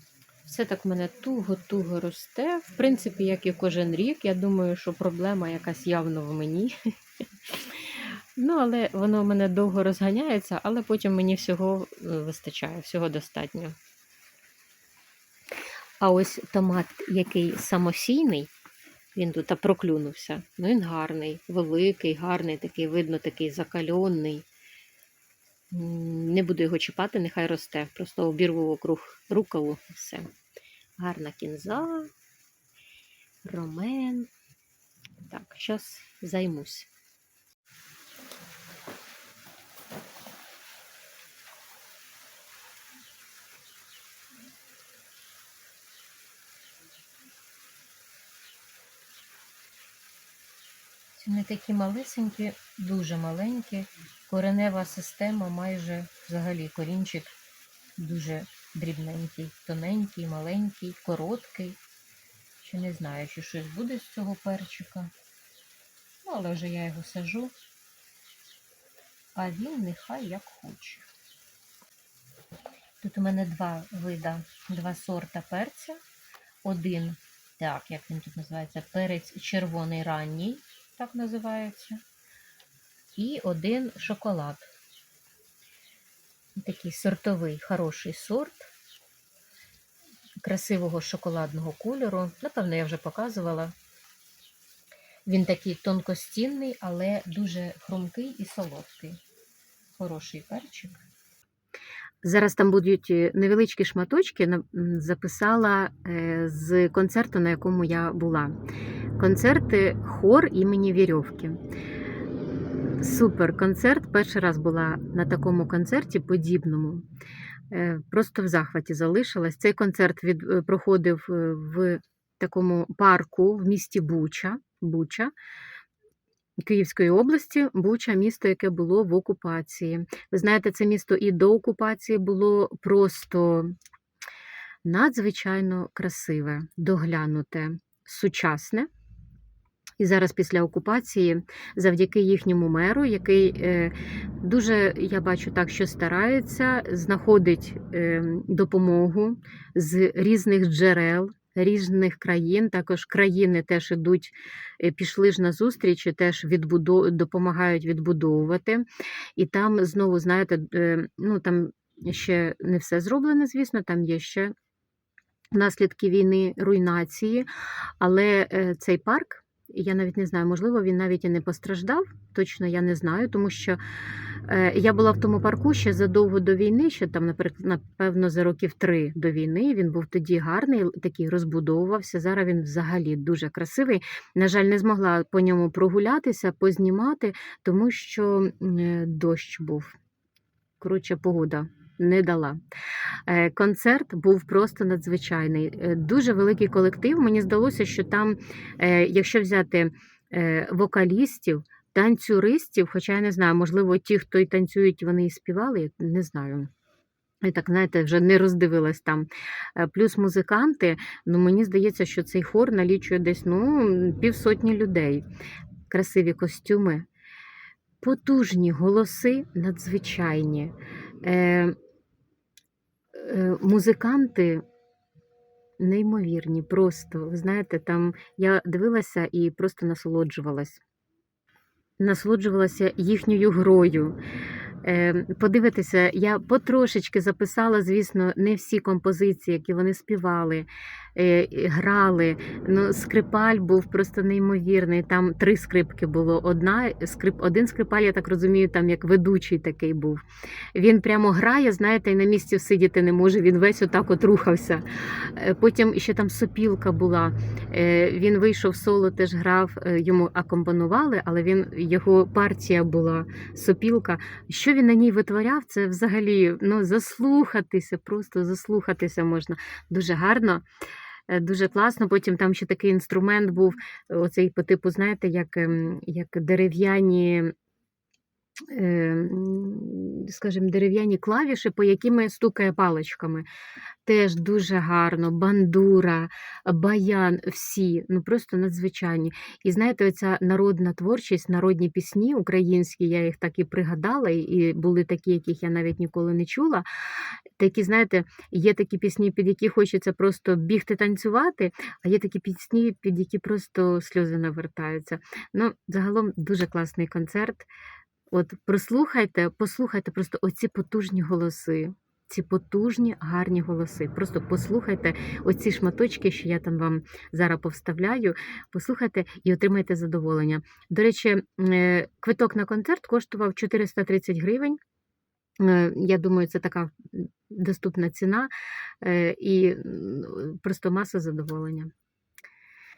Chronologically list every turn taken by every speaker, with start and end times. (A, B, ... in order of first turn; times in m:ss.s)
0:00.4-0:06.8 A
0:07.5-0:07.8 A
0:08.4-0:13.8 A
0:16.0-0:18.5 A
0:19.2-0:24.5 A
0:25.7-0:30.3 A
0:31.0-0:32.1 A
0:33.4-0:34.3 A
0:35.2-0:36.9 A
0:51.1-0:57.4 A
0:58.0-1:01.8 A
1:02.6-1:05.1 A
1:06.2-1:07.5 A
1:09.4-1:11.1 A
1:13.0-1:16.0 A
1:16.6-1:22.0 A
1:23.2-1:24.7 A
1:26.6-1:28.7 A
1:30.4-1:33.8 A
1:35.3-1:39.2 A
1:40.0-1:41.0 A
1:42.2-1:48.6 A
1:49.2-1:51.6 A
1:53.0-1:57.1 A
1:57.7-2:05.3 A
2:06.6-2:13.8 A
2:14.8-2:18.9 A
2:20.0-2:38.9 A
2:39.4-2:44.5 A
2:45.5-2:47.5 A
2:48.0-2:53.8 A
2:54.4-3:10.0 A
3:10.8-3:12.6 A
3:13.3-3:26.7 A
3:27.4-3:35.3 A
3:35.9-3:37.1 A
3:38.0-3:41.8 A
3:43.2-3:44.6 A
3:45.8-3:50.8 A
3:52.0-3:54.2 A
3:54.8-4:10.2 A
4:10.7-4:30.6 A
4:31.3-4:37.5 A
4:38.7-4:43.5 A
4:44.0-4:56.8 A
4:57.6-5:07.7 A
5:08.3-5:24.8 A
5:25.6-5:31.9 A